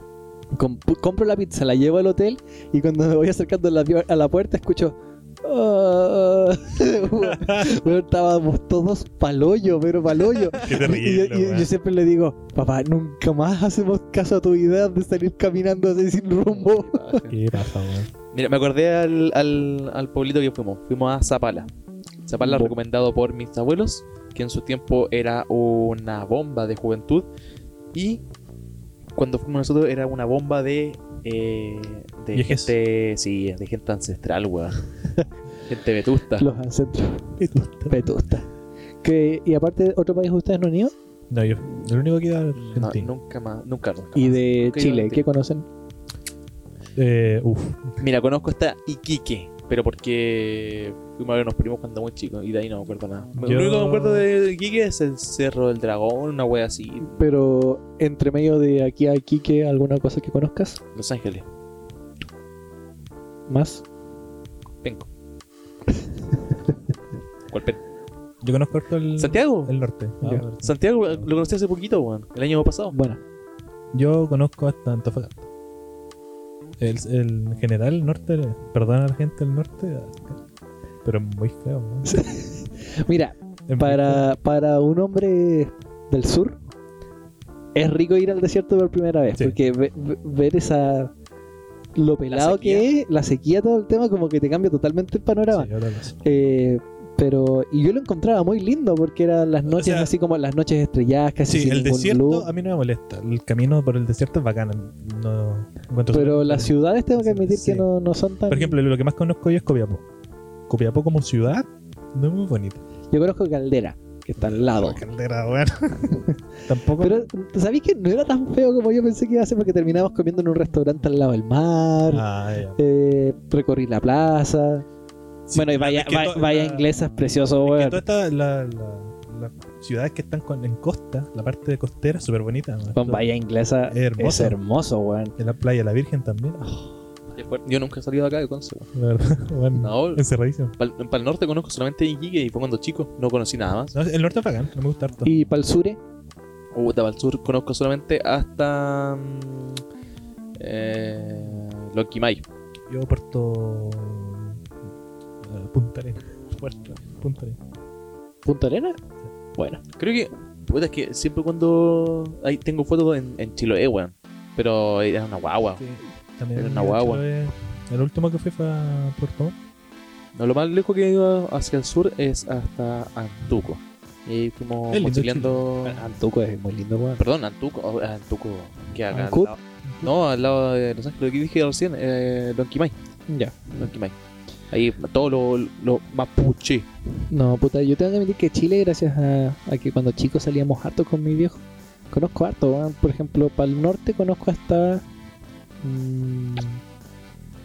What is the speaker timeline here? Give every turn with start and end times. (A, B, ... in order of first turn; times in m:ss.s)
0:00.5-0:17.2 A
0:07.3-0:07.7 B
0:10.5-0:11.7 B
0:16.4-0:17.4 C
0:17.3-0:18.1 B
0:18.3-0:21.7 C
0:22.3-0:27.3 C
0:22.4-0:22.7 B
0:27.9-0:28.2 C
0:29.2-0:34.8 C
0:32.3-0:32.7 B
0:35.7-0:36.4 C
0:36.4-0:37.4 A
0:37.4-0:38.1 B
0:37.9-0:38.4 A
0:39.0-0:40.9 A
0:41.3-0:43.1 B
0:42.6-0:45.2 C
0:44.1-0:45.6 A
0:47.0-0:47.9 B
0:48.0-0:57.1 C
0:53.4-0:54.2 B
0:57.0-1:00.8 A
1:00.9-1:01.4 C
1:03.5-1:03.8 A
1:07.5-1:07.8 C
1:08.4-1:11.2 B
1:09.2-1:09.7 C
1:10.6-1:12.9 C
1:12.9-1:13.2 A
1:13.9-1:15.4 B
1:16.8-1:20.4 B
1:21.0-1:22.2 B
1:22.0-1:26.6 A
1:23.7-1:24.3 B
1:27.7-1:31.1 A
1:32.0-1:35.7 A
1:32.3-1:32.9 C
1:35.5-1:36.2 B
1:36.2-1:42.5 A
1:39.7-1:40.1 B
1:41.5-1:47.9 B
1:46.1-1:48.8 A
1:48.5-1:50.0 B
1:50.7-1:52.8 B
1:53.1-1:55.0 A
1:54.4-1:56.1 B
1:56.7-1:57.3 B
1:57.0-2:02.2 A
2:02.1-2:02.8 B
2:02.8-2:04.8 A
2:05.5-2:06.9 B
2:05.5-2:08.0 A
2:07.6-2:13.3 B
2:12.9-2:15.3 A
2:13.9-2:14.6 B
2:15.4-2:16.6 B
2:17.3-2:18.9 C
2:18.9-2:20.7 B
2:19.8-2:20.2 C
2:20.8-2:23.9 C
2:23.9-2:25.3 B
2:25.2-2:26.0 A
2:26.7-2:29.8 C
2:30.6-2:32.4 C
2:32.9-2:34.6 B
2:35.4-2:37.6 B
2:38.4-2:39.0 A
2:39.6-2:39.8 A
2:40.0-2:45.8 C
2:45.8-2:49.6 B
2:46.6-2:47.2 C
2:50.3-2:56.0 C
2:54.9-2:55.6 B
2:55.8-2:57.2 A
2:57.2-3:02.9 C
2:59.1-2:59.5 A
2:59.8-3:00.1 B
3:03.3-3:03.5 A
3:03.7-3:04.1 C
3:04.7-3:06.9 C
3:07.3-3:15.0 A
3:15.8-3:16.8 A